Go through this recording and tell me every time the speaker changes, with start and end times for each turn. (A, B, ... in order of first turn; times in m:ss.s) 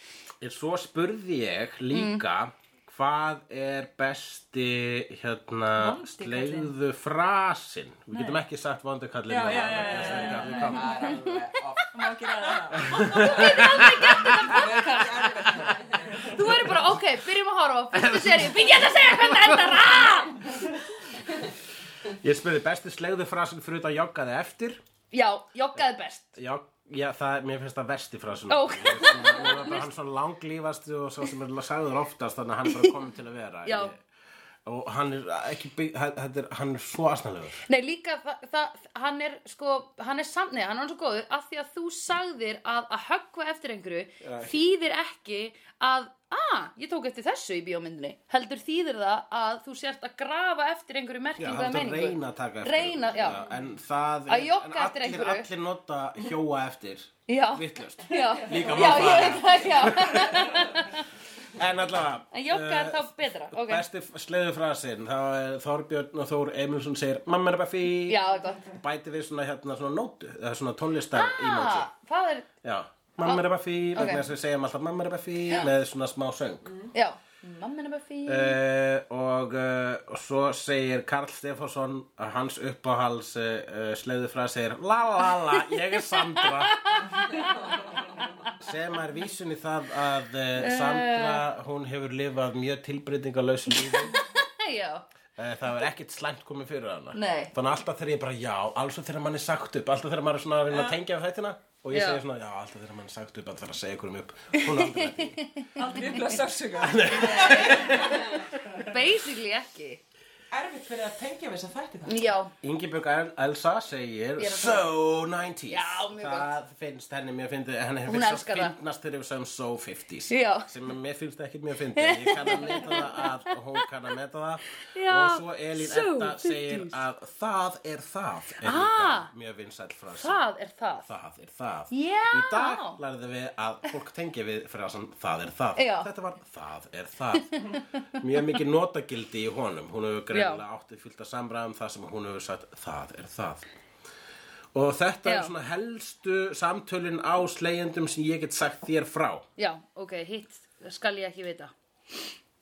0:00.4-0:11.1 A
0:01.9-0:02.2 B
0:05.8-0:06.7 C
0:09.3-0:11.1 C
0:09.6-0:12.0 D
0:11.9-0:13.0 C
0:12.8-0:14.5 A
0:12.8-0:15.6 B
0:14.2-0:16.6 D
0:16.2-0:20.6 B
0:17.9-0:19.8 A
0:22.0-0:24.8 A
0:25.1-0:26.3 B
0:26.3-0:34.0 A
0:28.5-0:29.9 B
0:33.6-0:33.9 B
0:34.6-0:37.6 A
0:37.6-0:53.4 B
0:44.2-0:44.5 A
0:51.4-1:00.6 A
0:54.3-0:55.5 B
0:57.3-1:01.0 B
1:01.5-1:11.9 A
1:02.3-1:03.8 B
1:08.0-1:08.7 B
1:11.1-1:12.5 B
1:12.6-1:16.8 A
1:13.2-1:14.2 B
1:16.9-1:18.6 B
1:18.2-1:26.8 A
1:26.1-1:27.7 B
1:28.6-1:34.2 A
1:30.6-1:31.4 B
1:33.9-1:35.0 B
1:35.4-1:45.4 A
1:37.1-1:37.5 B
1:41.9-1:42.2 B
1:44.6-1:46.4 B
1:45.8-1:48.3 C
1:46.8-1:48.4 A
1:47.2-1:48.0 D
1:48.8-1:50.0 B
1:50.5-1:52.2 D
1:52.0-1:52.5 B
1:52.6-2:10.4 A
1:54.4-1:54.8 B
1:55.7-1:56.5 B
1:58.1-1:58.7 B
2:00.3-2:00.7 B
2:02.0-2:03.4 B
2:04.9-2:07.0 B
2:08.6-2:09.3 B
2:10.2-2:11.1 B
2:11.1-2:17.5 A
2:11.9-2:13.0 B
2:15.8-2:16.1 B
2:18.2-2:23.6 A
2:20.3-2:20.6 B
2:24.7-2:29.4 A
2:25.2-2:25.5 B
2:29.6-2:31.7 B